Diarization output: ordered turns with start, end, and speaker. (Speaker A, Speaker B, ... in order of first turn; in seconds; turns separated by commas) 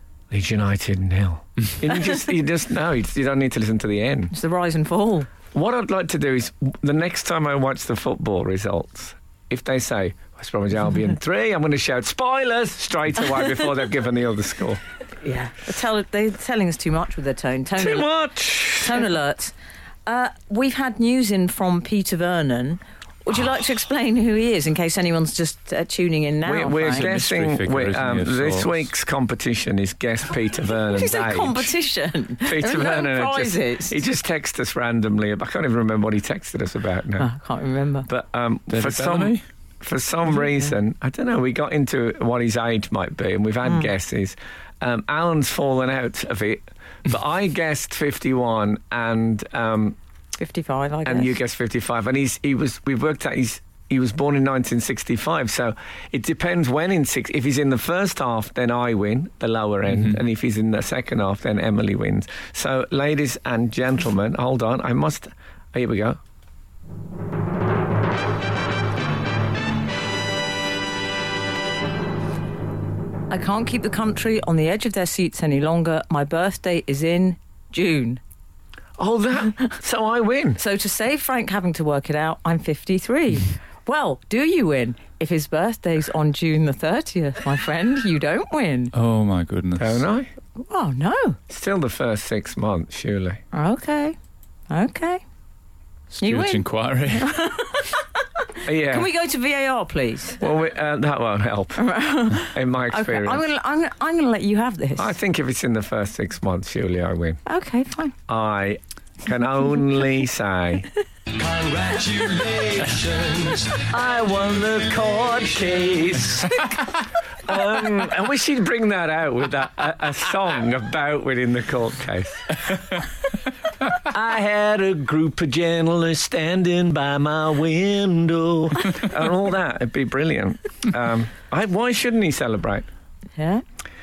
Speaker A: 0.3-4.3, Speaker B: 4.3-5.3, Speaker A: 5.5-14.8, Speaker B: 15.2-18.1, Speaker A: 17.8-19.1, Speaker B: 18.8-19.5, Speaker B: 20.1-27.1, Speaker A: 26.4-31.7, Speaker C: 26.9-28.9, Speaker B: 30.9-34.0, Speaker A: 32.4-37.3, Speaker B: 37.2-38.1, Speaker A: 38.1-50.0, Speaker C: 38.7-39.4, Speaker B: 50.4-51.3, Speaker A: 51.0-66.2, Speaker C: 59.9-60.2, Speaker B: 73.3-78.2, Speaker A: 79.0-80.6, Speaker B: 80.6-88.9, Speaker C: 88.9-90.0, Speaker A: 89.8-90.3, Speaker B: 90.6-91.4, Speaker A: 91.5-93.4, Speaker B: 93.5-94.2, Speaker B: 94.7-95.2, Speaker C: 96.1-97.4, Speaker B: 96.2-98.0, Speaker A: 98.6-99.1, Speaker B: 98.7-100.4, Speaker A: 100.4-103.4, Speaker B: 101.8-105.1, Speaker A: 105.0-107.4, Speaker B: 107.5-108.1, Speaker A: 108.3-110.9, Speaker D: 111.3-116.2, Speaker A: 113.9-116.6, Speaker A: 117.5-122.6, Speaker A: 123.9-132.8, Speaker B: 133.4-133.6